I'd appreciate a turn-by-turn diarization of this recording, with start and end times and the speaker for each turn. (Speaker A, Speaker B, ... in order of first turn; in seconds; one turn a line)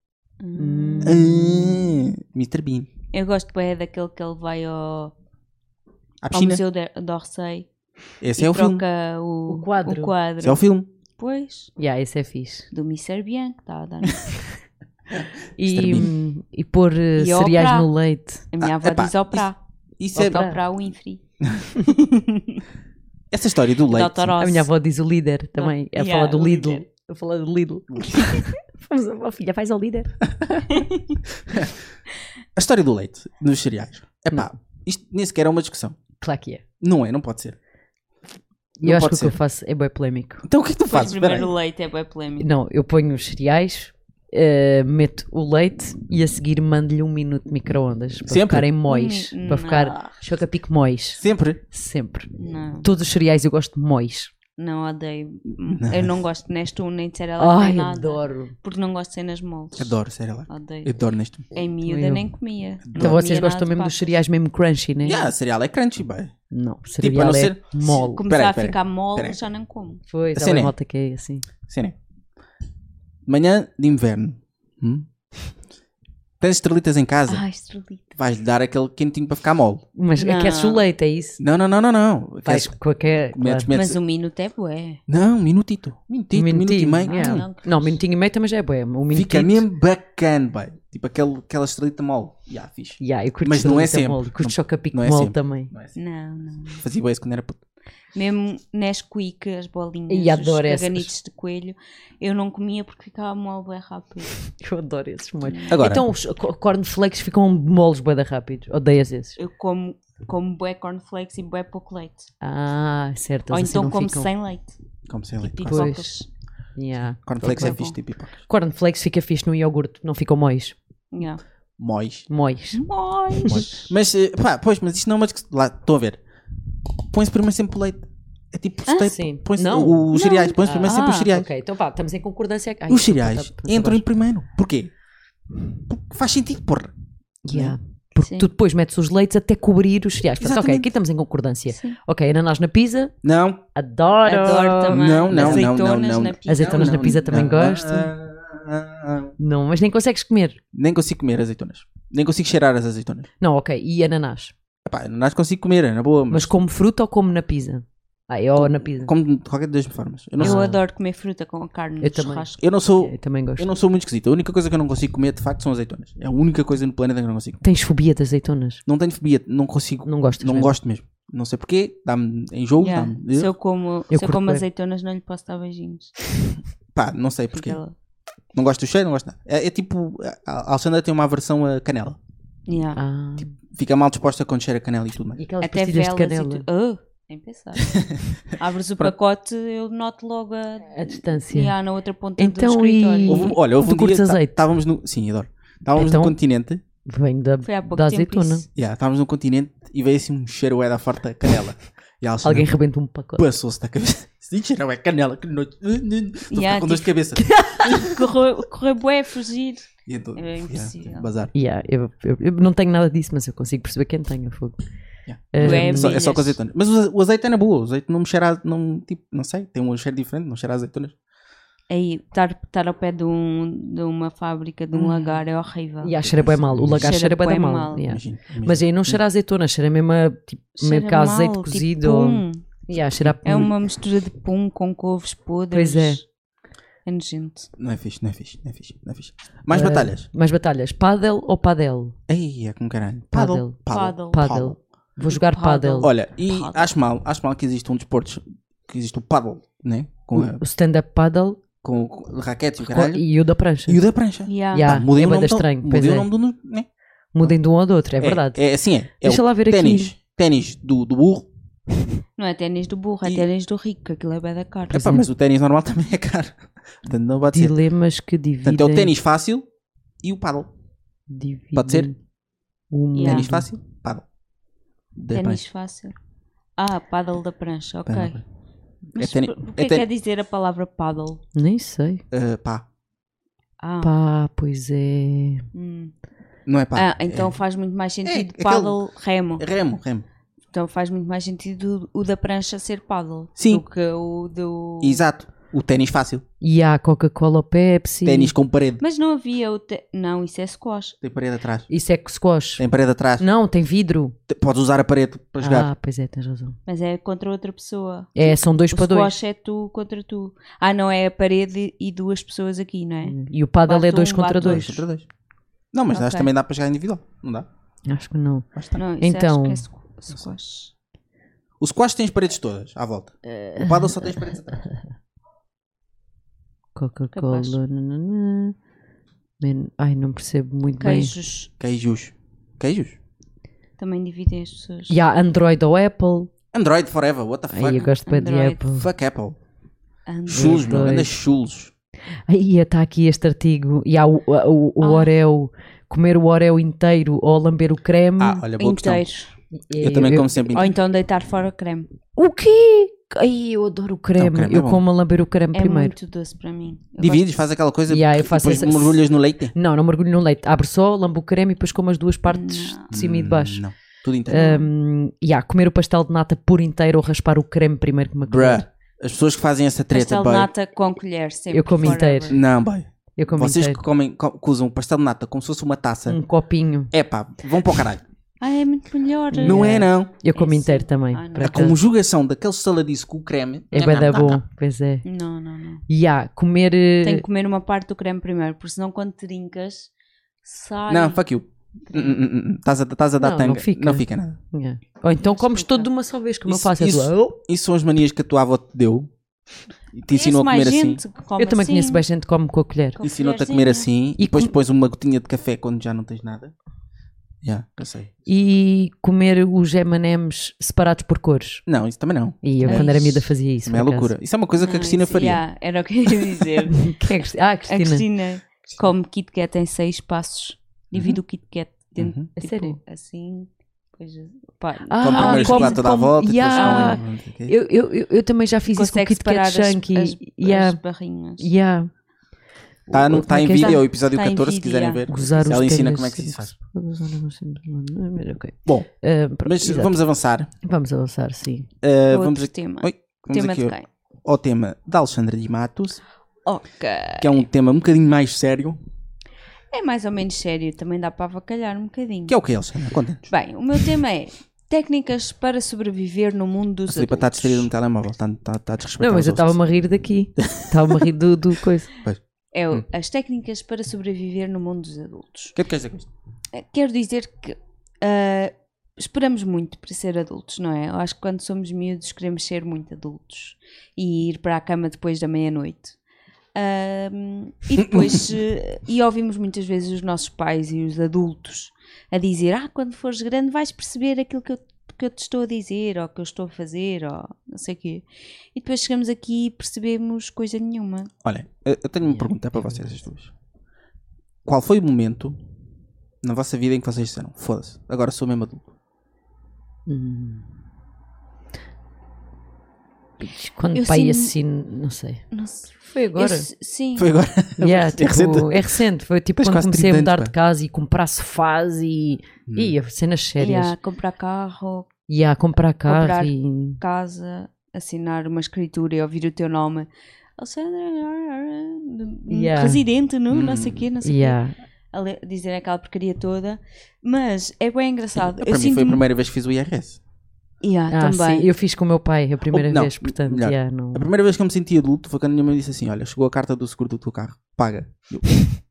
Speaker A: 0.4-1.2
Speaker B: 0.6-1.8
Speaker C: 1.0-2.9
Speaker A: 3.1-5.1
Speaker C: 6.2-6.6
Speaker A: 6.3-7.7
Speaker C: 8.2-8.8
Speaker A: 8.3-10.6
Speaker B: 9.5-10.1
Speaker C: 10.4-10.9
Speaker A: 11.2-11.7
Speaker B: 11.8-12.7
Speaker A: 12.7-14.3
Speaker C: 15.1-16.1
Speaker B: 15.6-18.4
Speaker A: 17.1-17.9
Speaker A: 18.5-19.6
Speaker C: 18.6-20.5
Speaker B: 20.1-20.6
Speaker A: 20.2-21.2
Speaker A: 21.8-22.6
Speaker C: 23.3-24.3
Speaker A: 23.9-24.7
Speaker B: 24.4-30.2
Speaker A: 25.6-26.8
Speaker A: 30.7-31.1
Speaker C: 31.5-31.8
Speaker C: 32.5-36.0
Speaker B: 36.2-36.6
Speaker C: 36.8-37.6
Speaker C: 38.8-39.4
Speaker B: 38.8-40.4
Speaker C: 40.4-41.5
Speaker A: 40.9-42.5
Speaker B: 42.4-52.3
Speaker C: 48.2-48.7
Speaker A: 48.9-50.1
Speaker C: 51.2-51.6
Speaker A: 52.4-52.9
Speaker B: 52.8-54.3
Speaker A: 54.6-59.9
Speaker C: 55.6-56.2
Speaker B: 57.4-58.5
Speaker C: 59.8-61.5
Speaker A: 60.5-61.0
Speaker A: 61.5-64.1
Speaker B: 61.8-62.2
Speaker C: 62.9-63.2
Speaker B: 62.9-65.3
Speaker C: 65.0-66.3
Speaker B: 66.5-68.2
Speaker C: 67.0-69.4
Speaker A: 67.8-70.0
Speaker B: 70.1-71.5
Speaker C: 70.3-70.7
Speaker C: 71.7-72.0
Speaker C: 73.2-75.1
Speaker C: 76.4-77.4
Speaker A: 77.3-78.1
Speaker C: 78.1-79.8
Speaker B: 80.0-81.4
Speaker A: 80.2-80.8
Speaker C: 81.4-82.8
Speaker B: 82.4-83.7
Speaker C: 83.3-84.0
Speaker A: 83.7-85.0
Speaker C: 85.1-87.5
Speaker B: 86.3-89.6
Speaker A: 87.1-88.0
Speaker C: 89.1-96.0
Speaker B: 93.0-95.7
Speaker A: 96.0-96.8
Speaker C: 96.8-97.6
Speaker A: 98.1-104.3
Speaker B: 100.1-101.1
Speaker B: 104.5-109.4
Speaker A: 105.4-105.8
Speaker C: 105.7-106.0
Speaker A: 109.4-112.3
Speaker B: 112.4-114.3
Speaker A: 113.5-114.7
Speaker C: 115.1-115.9
Speaker A: 115.4-116.3
Speaker B: 115.7-116.1
Speaker B: 116.8-117.8
Speaker C: 117.2-118.4
Speaker A: 117.4-117.9
Speaker B: 118.4-120.8
Speaker A: 121.1-121.4
Speaker C: 121.8-122.3
Speaker B: 122.3-122.8
Speaker A: 122.7-123.9
Speaker C: 123.5-126.2
Speaker C: 127.1-131.5
Speaker A: 128.9-129.2
Speaker B: 129.1-134.0
Speaker A: 130.1-131.3
Speaker C: 132.9-134.9
Speaker C: 135.9-136.9
Speaker B: 137.4-143.1
Speaker C: 137.5-137.7
Speaker C: 140.4-140.9
Speaker A: 141.7-142.0
Speaker C: 143.2-143.6
Speaker B: 143.7-145.7
Speaker A: 144.2-147.2
Speaker C: 144.9-149.3
Speaker B: 146.5-148.1
Speaker B: 149.4-150.6
Speaker C: 150.7-153.3
Speaker B: 153.4-154.5
Speaker C: 154.8-156.5
Speaker B: 156.3-159.1
Speaker C: 158.6-160.7
Speaker B: 160.4-160.8
Speaker A: 160.4-162.7
Speaker B: 162.0-162.4
Speaker C: 162.6-167.6
Speaker B: 163.0-163.7
Speaker B: 167.6-168.8
Speaker C: 168.8-173.5
Speaker B: 170.1-170.8
Speaker A: 172.8-176.1
Speaker B: 174.1-174.6
Speaker C: 176.9-177.8
Speaker A: 177.5-177.9
Speaker C: 178.5-182.2
Speaker A: 182.7-183.0
Speaker B: 182.9-183.5
Speaker C: 183.4-185.4
Speaker B: 185.4-186.7
Speaker A: 185.6-187.9
Speaker C: 187.9-188.2
Speaker A: 188.6-193.6
Speaker B: 190.9-191.7
Speaker B: 192.4-194.6
Speaker C: 193.3-196.8
Speaker B: 195.9-196.3
Speaker B: 197.1-198.6
Speaker A: 197.6-198.7
Speaker C: 198.7-202.7
Speaker B: 202.4-203.4
Speaker C: 203.3-207.6
Speaker A: 206.5-207.1
Speaker B: 207.4-207.9
Speaker A: 207.8-211.3
Speaker C: 210.1-211.5
Speaker B: 211.5-214.8
Speaker C: 215.3-221.1
Speaker B: 215.5-216.2
Speaker A: 215.6-216.6
Speaker A: 221.9-226.2
Speaker B: 224.9-225.4
Speaker B: 226.0-233.7
Speaker C: 226.2-227.2
Speaker A: 227.0-228.0
Speaker C: 228.0-229.2
Speaker A: 230.8-232.6
Speaker A: 233.4-236.2
Speaker B: 235.7-236.2
Speaker A: 237.1-237.7
Speaker C: 237.8-240.2
Speaker B: 239.7-242.1
Speaker C: 242.3-244.8
Speaker B: 243.3-246.1
Speaker A: 243.9-244.6
Speaker A: 245.3-246.9
Speaker C: 246.0-250.6
Speaker B: 250.3-251.6
Speaker C: 251.8-253.2
Speaker B: 252.8-254.0
Speaker C: 253.9-256.9
Speaker A: 254.5-254.9
Speaker B: 254.7-256.3
Speaker B: 257.3-258.6
Speaker C: 258.2-261.5
Speaker B: 259.2-260.1
Speaker A: 262.4-265.1
Speaker C: 264.9-267.8
Speaker B: 264.9-265.2
Speaker B: 267.5-269.1
Speaker C: 268.6-269.6
Speaker C: 270.2-270.7
Speaker B: 271.3-272.1
Speaker C: 271.7-272.1
Speaker B: 272.9-273.6
Speaker A: 273.1-273.4
Speaker C: 273.2-274.2
Speaker C: 275.1-275.6
Speaker A: 275.3-276.1
Speaker A: 276.8-278.4
Speaker C: 278.1-278.4
Speaker A: 279.1-281.4
Speaker C: 279.2-280.1
Speaker B: 281.5-282.2
Speaker C: 282.3-282.8
Speaker A: 283.8-284.1
Speaker B: 284.0-285.6
Speaker A: 285.7-286.1
Speaker C: 286.7-287.5
Speaker A: 286.9-289.6
Speaker C: 288.2-289.0
Speaker C: 289.6-290.2
Speaker A: 290.7-295.2
Speaker C: 293.6-293.8
Speaker C: 295.0-296.4
Speaker B: 296.6-298.5
Speaker C: 298.2-299.0
Speaker A: 299.0-301.1
Speaker C: 301.2-301.9
Speaker B: 301.9-302.8
Speaker C: 302.8-303.4
Speaker B: 303.4-304.4
Speaker C: 304.5-305.9
Speaker B: 305.6-306.8
Speaker A: 306.9-314.9
Speaker B: 308.4-309.3
Speaker B: 313.2-315.0
Speaker C: 314.6-315.3
Speaker C: 315.9-317.7
Speaker A: 316.1-316.5
Speaker B: 318.1-318.7
Speaker A: 318.9-320.9
Speaker B: 319.2-319.8
Speaker C: 321.8-324.9
Speaker B: 323.4-324.9
Speaker B: 326.9-328.7
Speaker A: 327.3-327.8
Speaker B: 329.6-331.3
Speaker A: 331.0-331.7
Speaker C: 331.8-333.2
Speaker A: 334.0-335.1
Speaker B: 335.1-336.5
Speaker C: 336.7-338.1
Speaker B: 337.7-339.1
Speaker A: 338.1-338.8
Speaker C: 338.9-339.6
Speaker A: 340.3-341.1
Speaker C: 340.5-341.9
Speaker B: 340.5-341.3
Speaker B: 342.5-348.6
Speaker A: 345.0-345.3
Speaker C: 348.4-349.2
Speaker A: 348.8-349.5
Speaker B: 349.7-350.5
Speaker C: 349.9-350.9
Speaker A: 350.7-352.1
Speaker B: 352.4-356.1
Speaker C: 354.4-355.0
Speaker A: 355.7-357.5
Speaker C: 357.2-359.7
Speaker B: 358.1-359.2
Speaker B: 359.7-363.8
Speaker A: 362.5-363.1
Speaker C: 363.1-364.7
Speaker B: 364.5-368.9
Speaker A: 364.5-364.9
Speaker C: 368.5-370.7
Speaker A: 370.1-372.6
Speaker B: 371.7-372.6
Speaker C: 372.0-376.4
Speaker B: 373.4-374.0
Speaker B: 376.3-377.1
Speaker C: 377.1-378.2
Speaker A: 378.6-379.9
Speaker B: 379.5-381.9
Speaker C: 379.6-380.3
Speaker A: 380.5-381.9
Speaker C: 381.6-384.6
Speaker B: 383.9-385.2
Speaker A: 385.2-386.0
Speaker B: 386.1-387.4
Speaker A: 387.2-390.1
Speaker A: 390.6-391.4
Speaker C: 391.1-394.6
Speaker A: 392.1-392.4
Speaker B: 393.4-397.6
Speaker A: 395.4-396.1
Speaker C: 396.6-399.3
Speaker C: 400.1-401.2
Speaker A: 400.3-402.2
Speaker B: 401.6-403.2
Speaker A: 403.1-404.1
Speaker C: 403.2-406.7
Speaker B: 404.4-404.7
Speaker C: 407.6-408.4
Speaker B: 408.5-411.8
Speaker C: 411.9-415.6
Speaker B: 412.6-414.3
Speaker A: 412.9-413.4
Speaker A: 414.8-417.1
Speaker B: 416.9-418.2
Speaker A: 417.9-426.1
Speaker C: 422.2-422.4
Speaker B: 422.6-423.0
Speaker B: 425.1-431.0
Speaker C: 425.2-427.7
Speaker A: 426.8-427.2
Speaker A: 428.9-431.7
Speaker B: 431.6-432.1
Speaker B: 433.1-434.0
Speaker C: 433.1-436.7
Speaker A: 433.8-435.8
Speaker B: 435.3-440.1
Speaker C: 439.6-440.7
Speaker B: 440.8-441.9
Speaker C: 442.0-446.2
Speaker A: 442.3-444.1
Speaker A: 446.6-447.6
Speaker C: 447.4-449.0
Speaker A: 449.9-452.6
Speaker C: 452.5-453.5
Speaker A: 453.5-457.9
Speaker C: 457.1-459.8
Speaker B: 459.2-462.1
Speaker C: 460.6-461.2
Speaker A: 462.7-465.8
Speaker C: 465.7-466.3
Speaker A: 466.7-476.1
Speaker A: 476.7-491.3
Speaker C: 478.0-478.5
Speaker C: 491.4-493.5
Speaker B: 492.2-493.1
Speaker C: 494.6-495.6
Speaker C: 496.4-498.9
Speaker B: 500.1-500.7
Speaker B: 503.4-505.4
Speaker A: 503.9-504.5
Speaker A: 505.5-507.3
Speaker B: 506.0-506.6
Speaker C: 507.1-509.0
Speaker B: 507.8-513.9
Speaker C: 509.6-510.5
Speaker C: 512.6-512.9
Speaker A: 513.6-515.1
Speaker B: 515.3-517.0
Speaker A: 516.1-524.6
Speaker B: 522.5-523.0
Speaker C: 523.5-524.0
Speaker B: 524.2-524.7
Speaker A: 525.1-529.2
Speaker C: 528.3-530.2
Speaker A: 530.8-531.7
Speaker B: 531.1-534.3
Speaker C: 532.7-538.6